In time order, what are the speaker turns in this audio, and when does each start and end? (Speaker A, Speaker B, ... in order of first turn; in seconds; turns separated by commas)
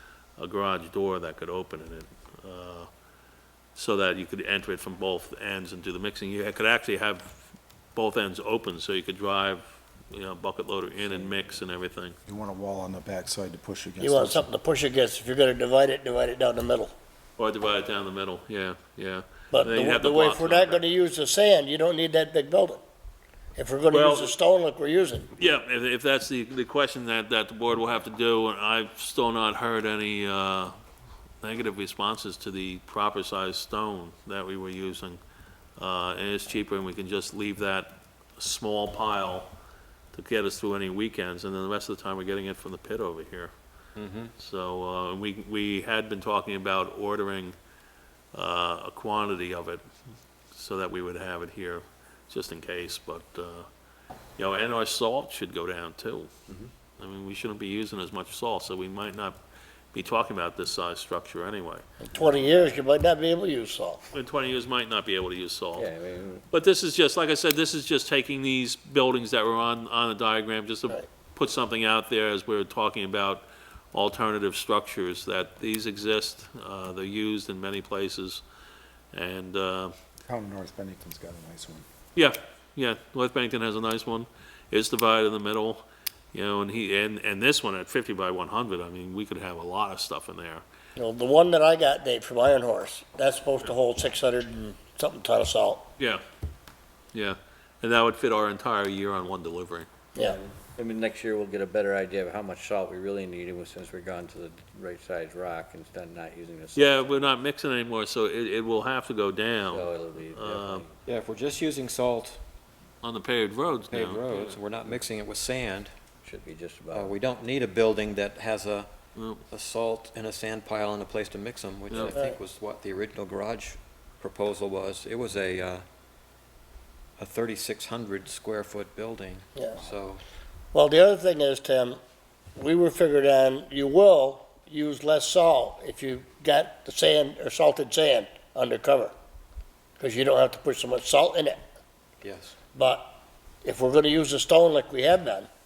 Speaker A: 0.4-2.9, Speaker A: 3.8-12.2, Speaker B: 12.3-14.5, Speaker C: 14.0-16.9, Speaker A: 17.4-20.8, Speaker C: 19.5-22.8, Speaker C: 23.6-25.3, Speaker A: 23.9-24.4, Speaker A: 25.4-30.8, Speaker A: 31.4-35.2, Speaker A: 35.8-39.5, Speaker A: 40.1-43.5, Speaker D: 44.0-44.3, Speaker A: 44.4-47.6, Speaker A: 48.3-49.8, Speaker A: 50.5-53.7, Speaker A: 54.4-56.3, Speaker A: 57.0-59.4, Speaker A: 59.9-61.8, Speaker C: 62.1-64.1, Speaker E: 62.1-62.7, Speaker A: 64.1-65.9, Speaker E: 65.8-66.5, Speaker A: 66.5-78.4, Speaker A: 79.1-80.0, Speaker B: 80.3-81.8, Speaker A: 82.2-90.6, Speaker C: 91.0-95.9, Speaker A: 96.0-96.2, Speaker A: 97.1-99.9, Speaker E: 100.2-107.2, Speaker A: 106.8-110.8, Speaker E: 109.7-111.0, Speaker D: 111.1-112.4, Speaker A: 113.0-114.2, Speaker D: 113.9-115.9, Speaker E: 116.2-117.2, Speaker D: 116.9-118.9, Speaker A: 119.2-119.4, Speaker D: 119.5-125.8, Speaker D: 127.2-130.2, Speaker C: 130.7-132.0, Speaker C: 132.6-139.1, Speaker C: 140.0-141.6, Speaker D: 142.2-142.6, Speaker C: 142.8-145.5